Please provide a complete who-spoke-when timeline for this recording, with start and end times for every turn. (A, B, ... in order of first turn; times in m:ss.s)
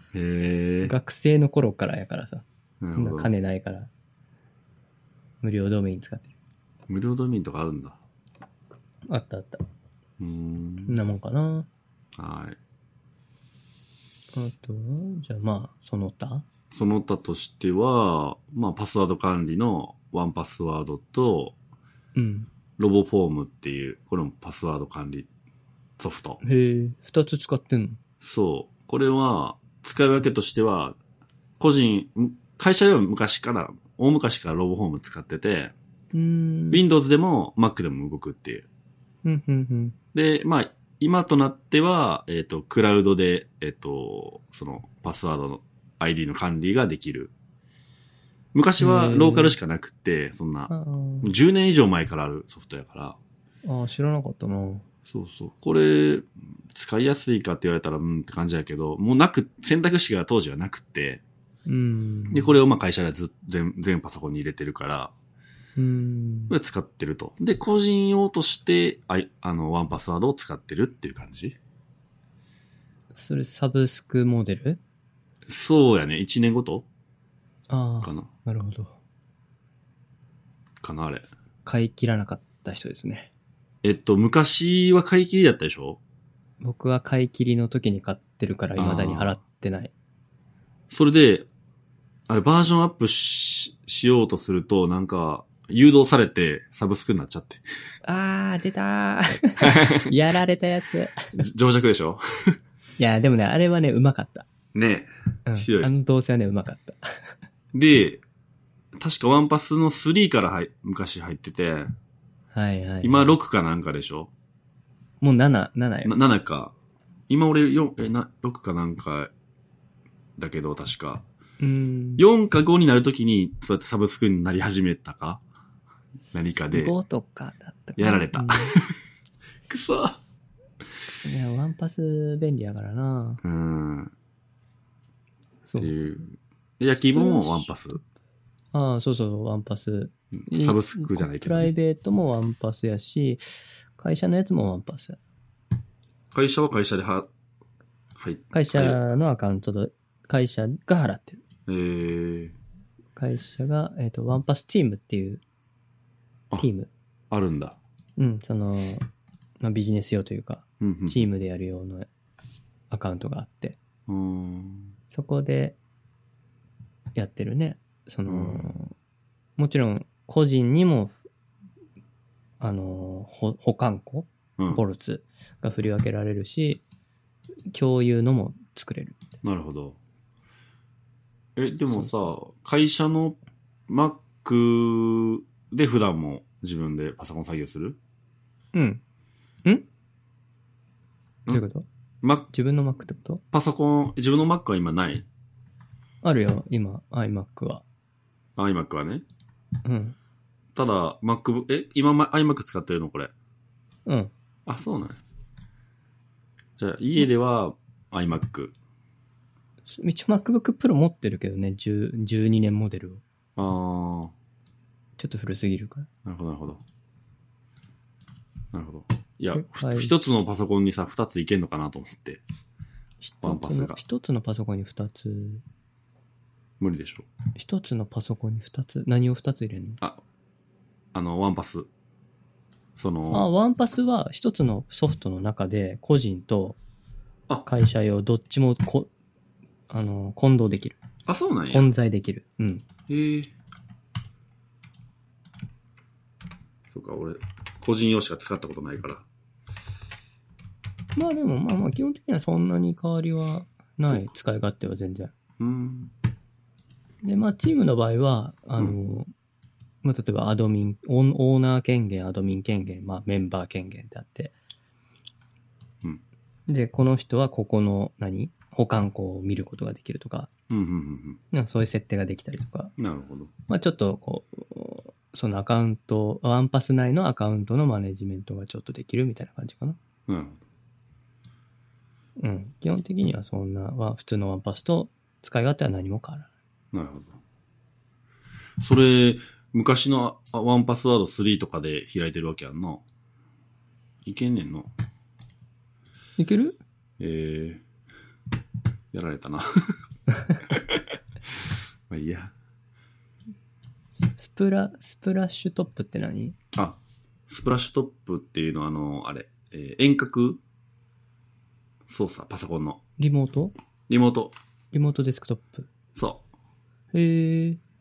0:00.1-0:00.9 A
0:00.8-0:02.4 B
0:02.8-0:03.3 A
0:03.0-0:03.9 B
0:05.4-0:06.4 B
0:06.9-0:08.0 A
0:09.1-0:09.6 B
0:10.2-0:11.0 A
0:10.9-0:11.7 B
0:12.2-0:12.6 A
0:14.3-0:16.5 B
0:16.7-0:21.6 A
0:22.2-0:22.5 B
0:22.8-0:25.3 A
0:26.0-0:26.4 A
0:26.4-0:28.0 B
0:28.2-0:31.0 A
0:31.6-0:35.7 A
0:36.1-0:36.8 B
0:36.7-0:38.7 A
0:39.2-0:40.0 B
0:40.1-0:47.3 A
0:48.5-0:50.7 A
0:48.8-0:49.6 B
0:50.7-0:51.3 B
0:51.2-0:53.2 A
0:53.6-0:54.8 B
0:55.1-1:01.2 A
1:01.7-1:02.6 B
1:02.3-1:05.1 A
1:05.8-1:06.6 B
1:06.5-1:11.6 A
1:13.1-1:14.8 B
1:15.5-1:16.9 A
1:17.7-1:19.0 B
1:18.0-1:18.3 A
1:20.8-1:21.3 A
1:21.6-1:23.3 B
1:23.8-1:26.0 A
1:26.6-1:29.9 B
1:28.8-1:29.4 A
1:30.9-1:31.5 A
1:32.3-1:37.6 A
1:38.0-1:41.4 B
1:39.6-1:40.1 A
1:41.3-1:42.6 A
1:43.0-1:44.5 B
1:44.7-1:45.9 A
1:45.5-1:47.3 B
1:47.7-1:48.2 A
1:49.0-1:51.9 A
1:52.5-1:53.4 B
1:53.0-1:54.3 A
1:55.2-1:56.2 B
1:56.0-1:56.7 A
1:57.3-1:59.3 A
2:00.4-2:01.2 A
2:01.6-2:02.2 B
2:02.2-2:05.4 A
2:06.3-2:06.9 A
2:06.7-2:08.8 B
2:08.0-2:09.0 A
2:09.7-2:10.2 A
2:11.2-2:13.4 B
2:13.4-2:14.1 A
2:15.7-2:15.9 B
2:15.8-2:18.0 A
2:16.9-2:18.0 B
2:18.7-2:25.2 B
2:20.4-2:21.7 A
2:26.3-2:27.3 A
2:28.2-2:29.0 A
2:28.5-2:31.4 B
2:31.7-2:32.6 A
2:33.2-2:35.4 B
2:36.6-2:36.9 B
2:37.3-2:37.8 A
2:38.2-2:39.1 B
2:39.6-2:42.1 B
2:40.8-2:41.3 A
2:42.9-2:43.8 B
2:44.1-2:44.9 A
2:45.1-2:45.8 B
2:47.2-2:48.9 B
2:48.3-2:48.8 A
2:49.6-2:51.2 B
2:52.6-2:56.8 B
2:57.7-2:59.2 B
2:59.4-3:00.0 A
3:01.6-3:03.4 A
3:01.9-3:02.3 B
3:03.9-3:08.0 A
3:08.7-3:09.0 B
3:11.5-3:11.8 B
3:12.2-3:12.5 A
3:12.5-3:13.4 B
3:13.5-3:15.3 A
3:16.2-3:17.8 B
3:18.6-3:19.2 A
3:19.8-3:20.2 B
3:20.8-3:23.3 A
3:24.1-3:24.3 B
3:24.7-3:25.2 A
3:26.8-3:28.7 A
3:29.9-3:33.2 B
3:33.6-3:34.3 A
3:35.2-3:36.1 B
3:36.2-3:36.8 A
3:38.7-3:42.4 A
3:39.5-3:40.1 B
3:43.2-3:45.6 B
3:43.4-3:44.0 A
3:46.8-3:47.3 A
3:47.6-3:50.0 B
3:51.1-3:51.9 A
3:53.0-3:53.5 A
3:53.3-3:56.8 B
3:57.7-3:59.1 B
3:59.9-4:01.0 B
4:01.3-4:01.9 A
4:01.7-4:02.9 B
4:03.1-4:03.5 A
4:06.9-4:09.2 A
4:11.2-4:15.3 B
4:15.6-4:16.1 A
4:17.2-4:19.3 B
4:20.0-4:24.5 B
4:26.7-4:30.5 B
4:30.7-4:31.4 A
4:31.5-4:32.9 B
4:33.0-4:33.5 A
4:33.7-4:40.0 B
4:40.3-4:40.6 A
4:42.4-4:46.5 B
4:46.9-4:47.4 A
4:48.8-4:53.0 A
4:54.2-4:54.9 A
4:56.4-4:56.8 B
4:57.2-4:57.8 A
4:59.1-4:59.6 A
5:00.6-5:02.5 A
5:04.2-5:06.6 B
5:06.7-5:10.6 A
5:12.1-5:13.0 A
5:13.2-5:13.7 B
5:14.1-5:14.5 A
5:14.9-5:15.9 B
5:16.2-5:16.4 A
5:17.1-5:17.8 B